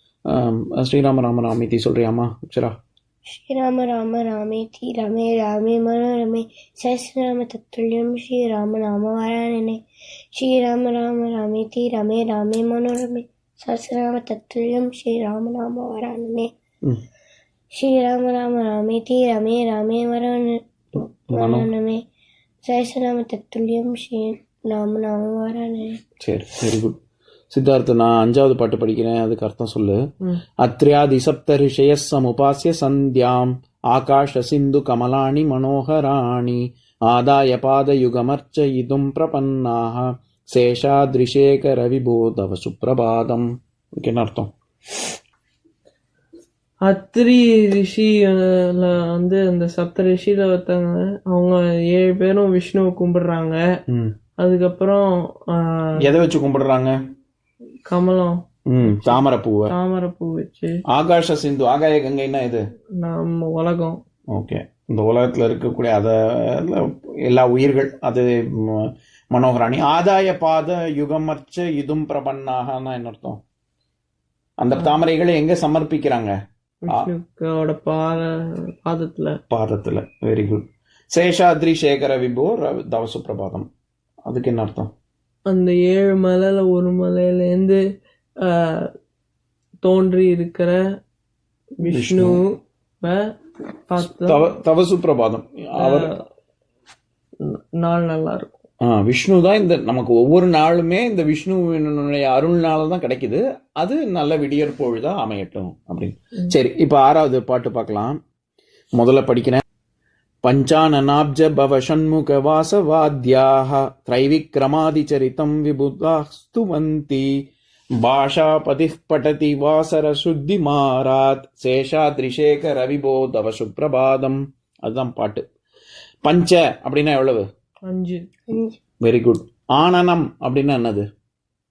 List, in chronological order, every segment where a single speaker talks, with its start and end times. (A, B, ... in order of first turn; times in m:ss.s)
0:00.3-0:02.7 A
0:03.3-0:09.8 B
0:10.4-0:16.5 B
0:17.8-0:22.0 B
0:21.3-0:21.7 A
0:22.6-0:26.0 B
0:26.2-0:27.0 A
0:27.5-0:30.0 A
0:30.6-0:44.5 A
0:46.8-0:53.6 C
0:53.9-0:54.1 A
0:54.4-0:55.8 C
0:56.0-0:56.9 A
0:57.9-1:00.8 C
0:58.7-0:59.7 A
1:00.9-1:02.6 A
1:03.0-1:04.0 C
1:04.3-1:13.4 A
1:14.6-1:16.4 A
1:16.8-1:18.3 C
1:18.8-1:19.4 C
1:19.5-1:23.7 A
1:24.3-1:24.9 A
1:25.5-1:27.8 C
1:28.4-1:28.9 C
1:29.8-1:30.8 C
1:31.8-1:32.5 C
1:31.8-1:32.4 A
1:33.9-1:34.5 C
1:34.0-1:36.1 A
1:35.8-1:36.1 C
1:37.4-1:38.6 C
1:38.8-1:48.2 A
1:49.0-1:49.6 A
1:50.4-1:57.3 A
1:58.0-2:05.4 A
2:06.2-2:07.5 A
2:07.9-2:08.2 C
2:08.5-2:08.8 B
2:09.0-2:11.1 A